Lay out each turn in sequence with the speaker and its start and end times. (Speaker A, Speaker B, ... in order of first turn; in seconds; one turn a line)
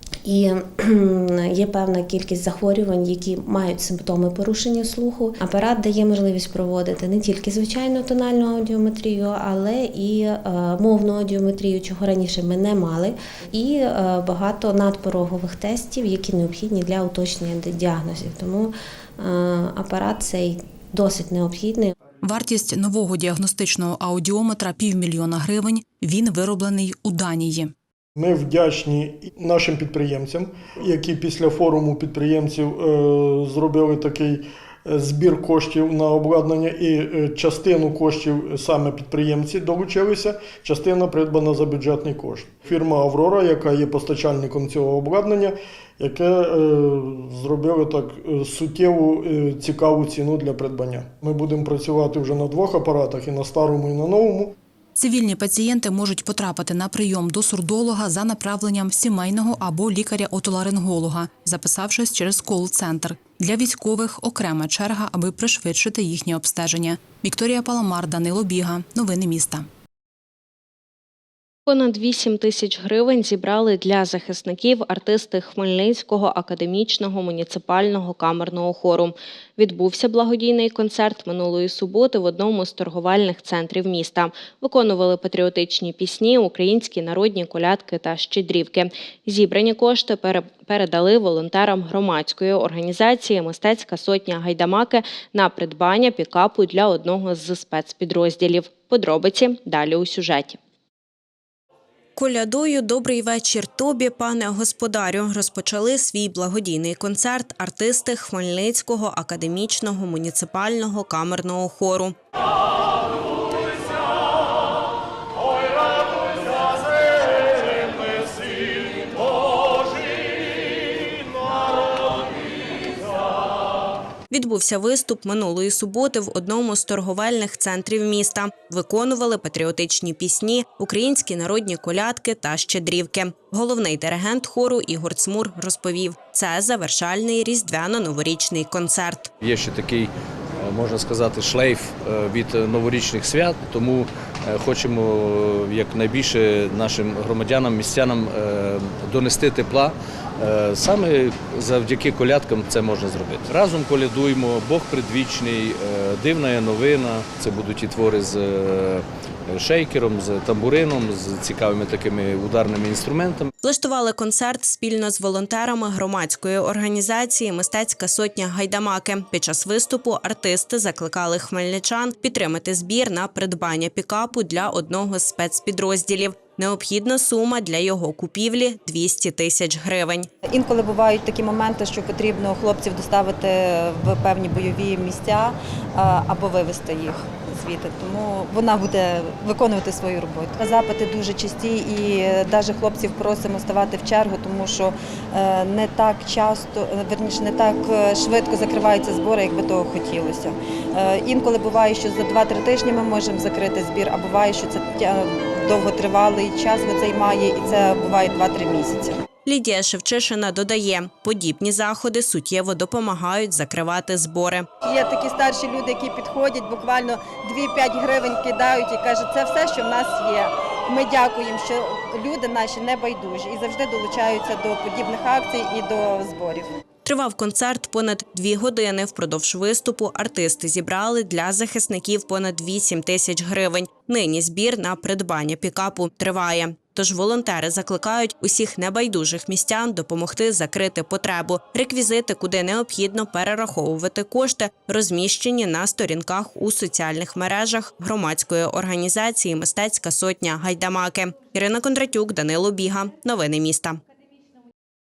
Speaker A: 0.2-21.9
Speaker B: 22.2-27.7
Speaker C: 28.2-54.5
Speaker B: 55.0-69.7
Speaker D: 71.7-100.6
Speaker D: 102.2-112.2
Speaker D: 124.3-139.3
Speaker E: 139.4-163.5
Speaker D: 163.6-180.3
Speaker F: 180.4-209.2
Speaker D: 209.4-214.7
Speaker F: 214.8-226.7
Speaker D: 227.1-254.0